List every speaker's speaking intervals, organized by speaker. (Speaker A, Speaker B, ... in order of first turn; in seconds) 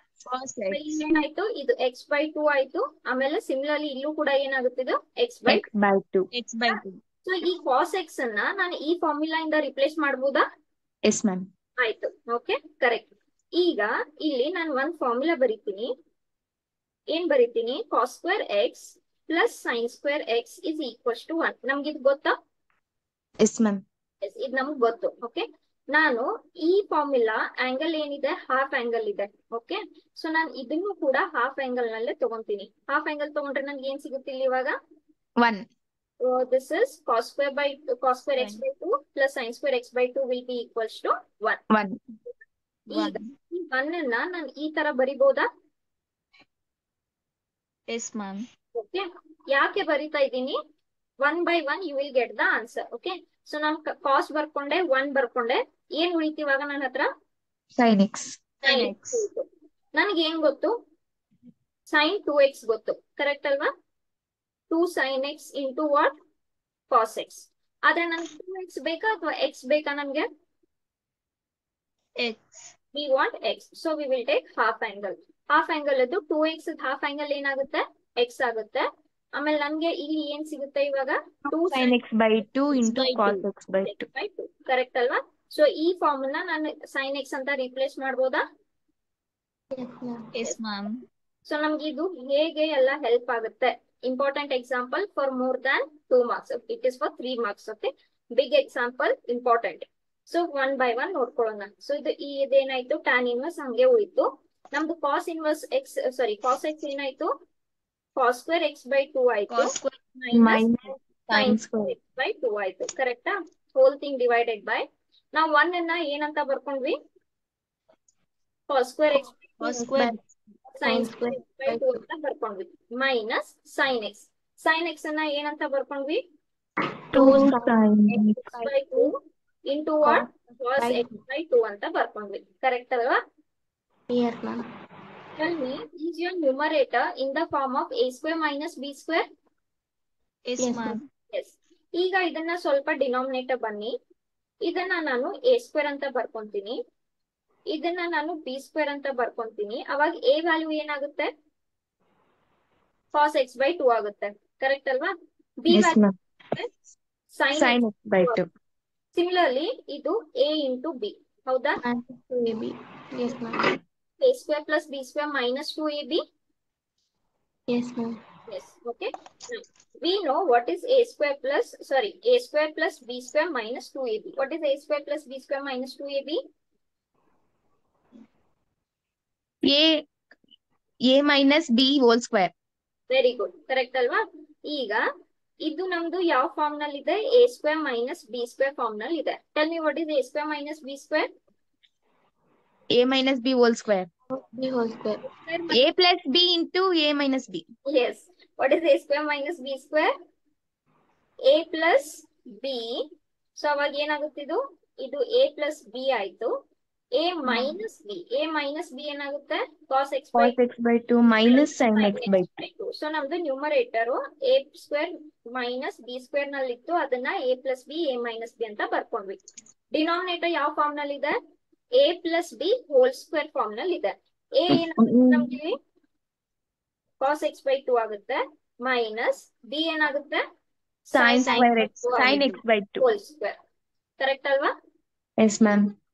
Speaker A: 0.2-1.0, 6.3-7.0, 42.9-43.3, 47.9-48.5, 58.6-59.2, 72.2-72.7, 82.8-83.4, 90.3-91.0, 109.5-110.0, 119.6-120.2, 140.4-141.1, 231.4-232.5
Speaker B: 0.7-5.6, 6.7-10.4, 11.8-15.9, 17.1-22.4, 24.2-34.8, 36.2-41.6, 42.9-45.5, 48.7-50.6, 51.2-57.1, 58.6-60.8, 61.9-63.7, 64.7-66.1, 66.9-70.3, 72.9-82.0, 83.8-88.4, 91.5-107.3, 108.2-110.6, 111.3-117.0, 118.7-119.3, 120.8-126.2, 127.2-127.5, 128.3-129.1, 129.7-133.2, 135.4-139.2, 141.3-143.9, 144.6-146.8, 147.7-151.3, 153.1-156.0, 157.3-158.4, 159.1-161.8, 164.2-166.2, 168.5-176.4, 183.1-185.1, 185.6-191.3, 195.2-195.8, 197.9-200.1, 201.4-206.5, 207.1-210.6, 211.5-219.4, 219.9-221.3, 221.9-225.8, 227.2-230.4, 231.1-233.6, 234.2-234.7
Speaker C: 5.5-6.3, 11.1-11.5, 23.4-23.8, 35.4-35.6, 41.7-42.0, 57.8-58.4, 81.6-84.0, 110.3-112.0, 127.1-128.4, 155.7-156.1, 157.5-158.4, 179.6-180.0, 181.1-182.5, 192.9-194.1, 195.7-197.6, 210.3-212.5, 224.7-225.5, 231.1-233.1, 235.4-235.9
Speaker D: 89.7-90.3, 119.7-120.1, 120.8-122.0, 127.1-127.7, 128.5-129.1, 130.8-131.1, 134.1-134.6, 140.6-141.0, 161.8-163.7, 167.7-168.2, 194.3-195.2